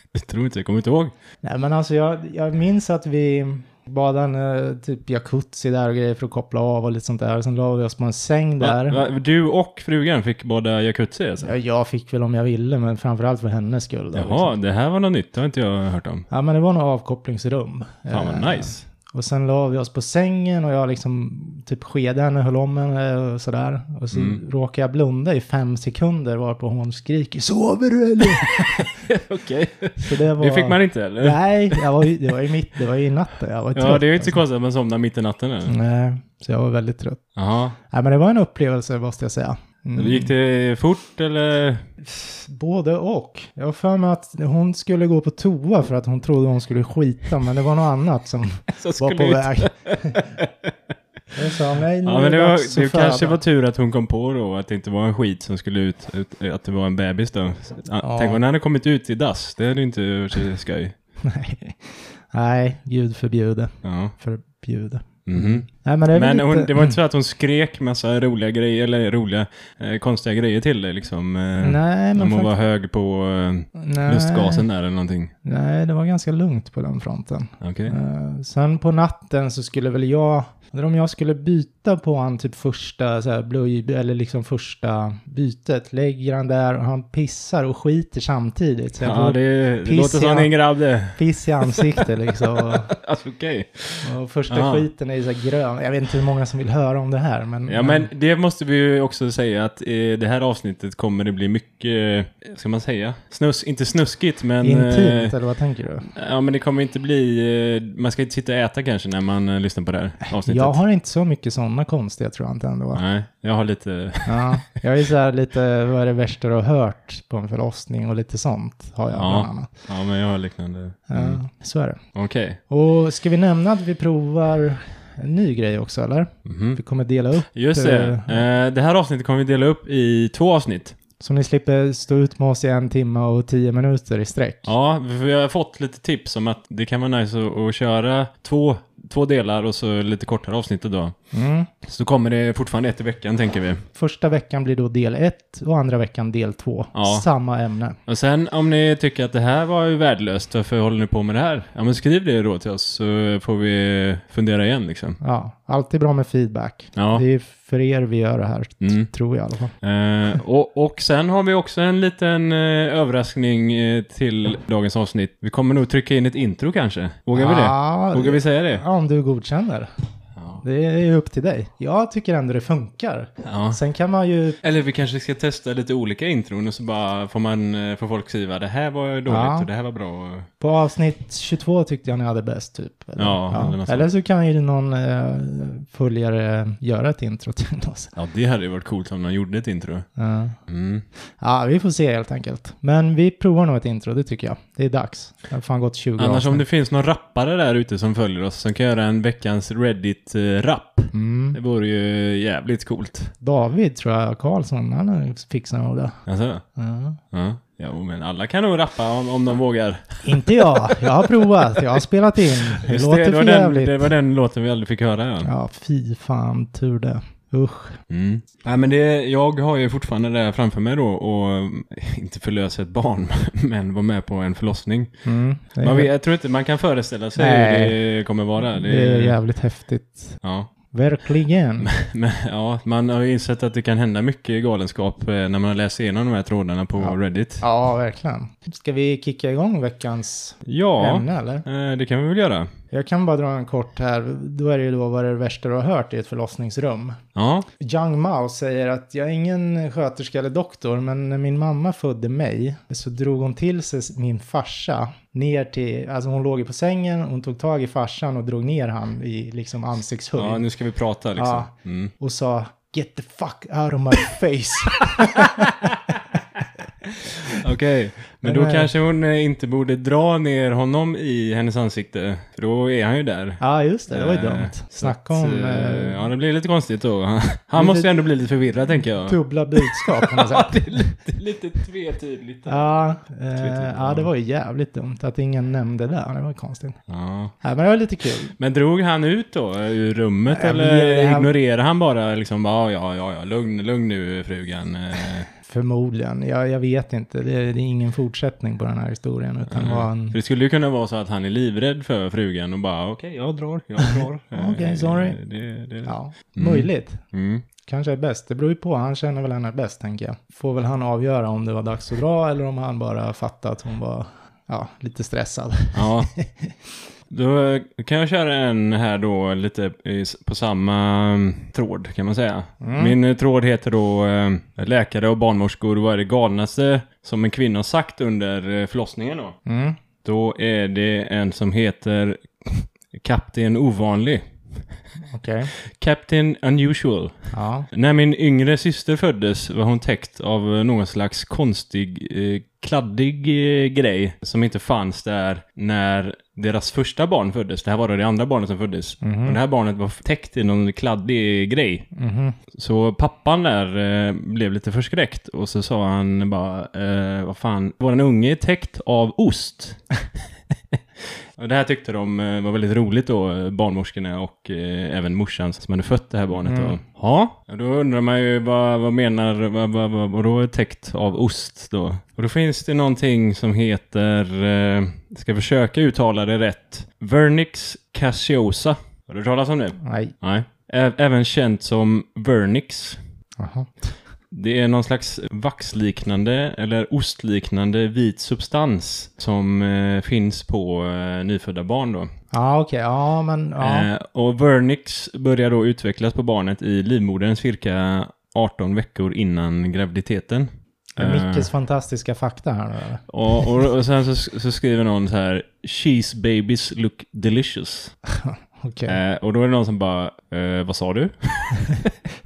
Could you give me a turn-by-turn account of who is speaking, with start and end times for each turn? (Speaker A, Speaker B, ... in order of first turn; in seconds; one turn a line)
Speaker A: 0.1-1.1
Speaker B: 1.4-9.0
Speaker A: 8.6-11.5
Speaker B: 11.4-14.6
Speaker A: 14.1-16.3
Speaker B: 16.3-28.9
Speaker A: 18.1-18.8
Speaker A: 24.1-24.4
Speaker A: 28.2-31.9
Speaker B: 30.0-34.4
Speaker A: 33.7-35.7
Speaker B: 35.7-37.2
Speaker A: 37.4-37.8
Speaker B: 37.9-40.3
Speaker A: 40.0-41.8
Speaker B: 42.0-50.2
Speaker A: 48.8-50.7
Speaker B: 51.3-53.4
Speaker A: 52.0-60.9
Speaker B: 58.0-58.4
Speaker B: 61.2-67.0
Speaker A: 63.8-64.2
Speaker A: 65.3-75.3
Speaker B: 71.6-72.5
Speaker B: 73.8-74.7
Speaker B: 75.4-90.5
Speaker A: 77.6-78.0
Speaker A: 89.0-92.1
Speaker B: 91.1-92.9
Speaker A: 92.6-94.9
Speaker B: 94.0-98.1
Speaker A: 97.7-105.4
Speaker B: 104.6-106.1
Speaker A: 106.1-110.8
Speaker B: 110.4-113.0
Speaker A: 113.0-114.6
Speaker B: 114.3-119.7
Speaker A: 119.1-121.4
Speaker B: 121.1-122.0
Speaker A: 122.2-122.6
Speaker B: 122.7-128.4
Speaker A: 126.5-126.8
Speaker A: 127.5-131.0
Speaker B: 131.2-134.7
Speaker A: 134.7-141.2
Speaker B: 141.3-141.7
Speaker A: 141.8-143.8
Speaker B: 143.9-148.0
Speaker A: 146.9-147.3
Speaker A: 148.1-155.2
Speaker B: 155.2-159.7
Speaker A: 157.0-157.2
Speaker A: 158.8-159.1
Speaker A: 159.8-168.8
Speaker B: 167.3-169.9
Speaker A: 170.4-170.6
Speaker B: 170.6-174.6
Speaker A: 173.4-173.8
Speaker A: 174.6-180.5
Speaker B: 179.3-179.7
Speaker B: 180.6-188.1
Speaker A: 183.2-184.1
Speaker A: 188.2-190.1
Speaker B: 190.2-190.6
Speaker A: 190.7-191.1
Speaker B: 191.4-196.6
Speaker A: 196.2-203.3
Speaker B: 201.1-201.6
Speaker B: 203.4-206.1
Speaker A: 206.3-206.6
Speaker B: 206.8-207.2
Speaker A: 207.3-211.8
Speaker B: 210.2-214.1
Speaker A: 212.8-215.5
Speaker B: 215.4-218.0
Speaker A: 218.1-225.1
Speaker B: 225.2-226.1
Speaker A: 225.8-229.4
Speaker B: 227.4-228.0
Speaker B: 228.7-231.9
Speaker A: 230.4-230.7
Speaker A: 231.8-237.6
Speaker B: 237.0-241.6
Speaker A: 240.7-242.7
Speaker B: 242.9-247.2
Speaker A: 247.3-247.7
Speaker B: 247.8-260.6
Speaker A: 260.4-262.1
Speaker B: 261.4-265.7
Speaker A: 265.6-265.9
Speaker A: 267.5-282.9
Speaker B: 268.4-268.9
Speaker B: 273.6-276.2
Speaker B: 277.8-278.1
Speaker B: 279.2-281.2
Speaker B: 282.7-287.0
Speaker A: 283.5-284.3
Speaker A: 287.1-287.5
Speaker B: 287.6-288.6
Speaker A: 288.6-295.5
Speaker B: 290.5-291.5
Speaker B: 295.6-300.4
Speaker A: 299.7-307.7
Speaker B: 304.5-305.4
Speaker B: 306.0-307.2
Speaker B: 307.8-316.7
Speaker A: 315.9-316.3
Speaker A: 317.3-329.6
Speaker B: 322.8-323.2
Speaker B: 329.7-330.0
Speaker A: 330.2-334.4
Speaker B: 335.3-335.7
Speaker A: 335.9-352.1
Speaker B: 337.5-337.9
Speaker B: 349.2-349.6
Speaker B: 352.1-352.6
Speaker A: 352.7-360.0
Speaker A: 361.6-383.2
Speaker B: 366.6-367.0
Speaker B: 380.0-380.3
Speaker B: 383.6-384.1
Speaker A: 384.5-392.3
Speaker B: 392.5-394.1
Speaker A: 393.8-401.7
Speaker B: 401.2-403.7
Speaker A: 403.3-408.1
Speaker B: 408.3-409.2
Speaker A: 409.1-412.2